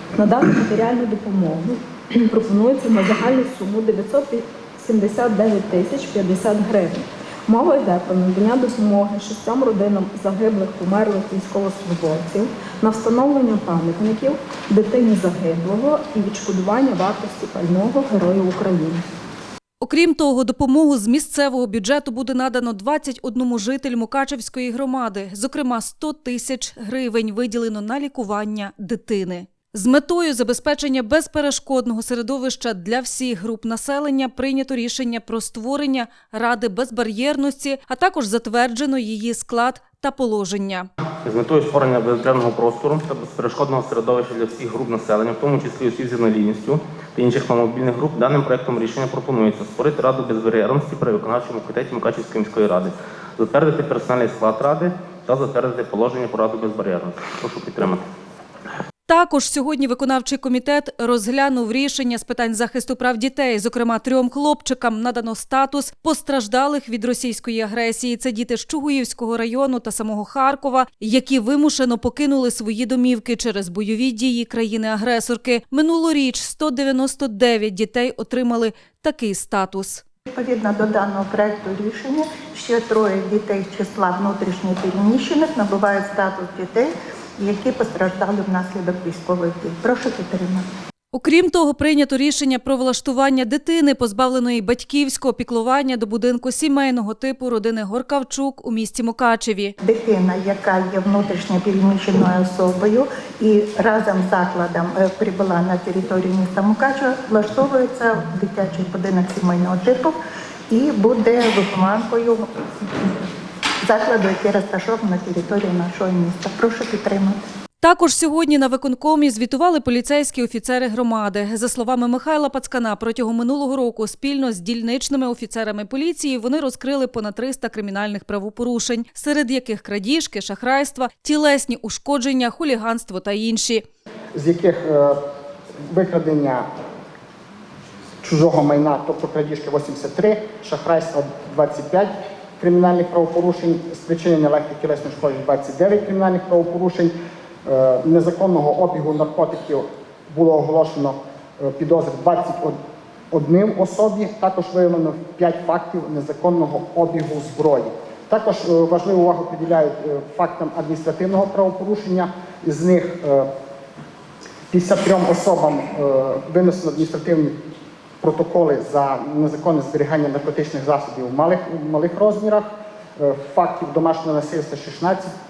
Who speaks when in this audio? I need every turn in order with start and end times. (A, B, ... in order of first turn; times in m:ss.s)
0:00.2-0:19.0 A
0:19.8-0:40.9 B
0:41.2-0:58.0 C
0:59.1-1:20.0 B
1:20.3-1:30.6 D
1:31.1-1:39.8 B
1:39.8-1:50.2 D
1:50.7-1:52.4 D
1:53.8-1:57.4 D
1:57.8-2:13.8 B
2:14.3-2:15.2 E
2:15.9-2:16.7 E
2:18.2-2:27.1 E
2:27.6-2:32.8 E
2:33.3-2:43.5 E
2:44.7-2:47.6 E
2:48.2-2:55.3 E